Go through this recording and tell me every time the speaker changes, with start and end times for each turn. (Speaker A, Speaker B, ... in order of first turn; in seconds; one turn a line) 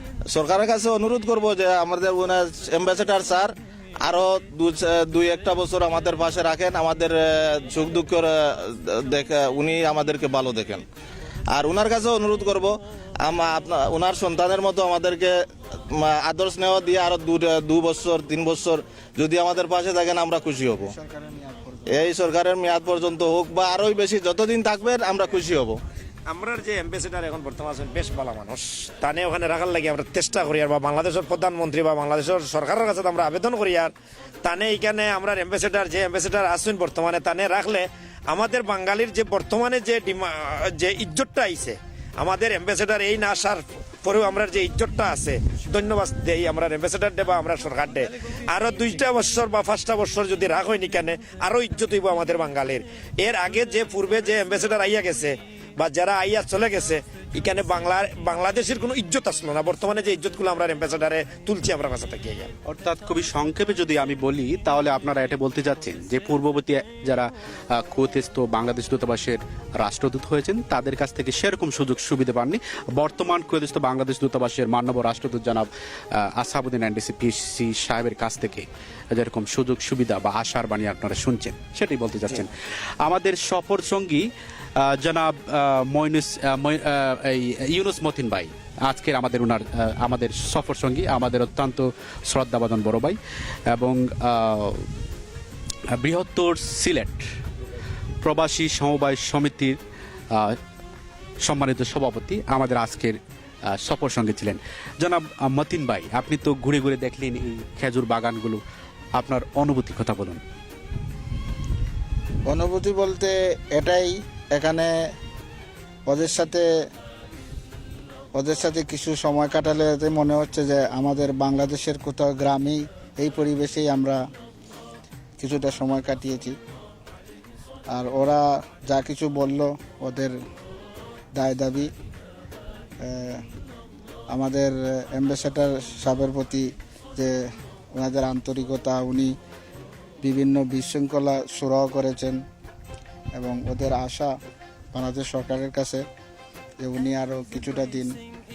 Speaker A: 0.3-3.5
Speaker A: 4.0-10.8
Speaker A: 11.5-15.4
Speaker A: 15.9-20.9
Speaker B: 20.8-22.1
Speaker A: 21.9-25.8
Speaker C: 26.3-33.9
Speaker C: 34.4-62.5
Speaker D: 62.6-93.2
Speaker D: 93.7-94.9
Speaker D: 95.9-97.3
Speaker D: 98.2-99.8
Speaker D: 100.3-100.6
Speaker D: 101.4-103.2
Speaker D: 103.7-108.6
Speaker D: 109.2-110.4
Speaker B: 112.5-115.0
Speaker B: 116.1-116.7
Speaker B: 118.3-124.2
Speaker B: 125.4-126.5
Speaker B: 127.9-130.3
Speaker B: 131.3-131.9
Speaker B: 133.0-133.4
Speaker B: 134.3-139.3
Speaker B: 140.2-142.4
Speaker B: 143.4-144.3
Speaker B: 144.9-146.1
Speaker B: 146.8-148.1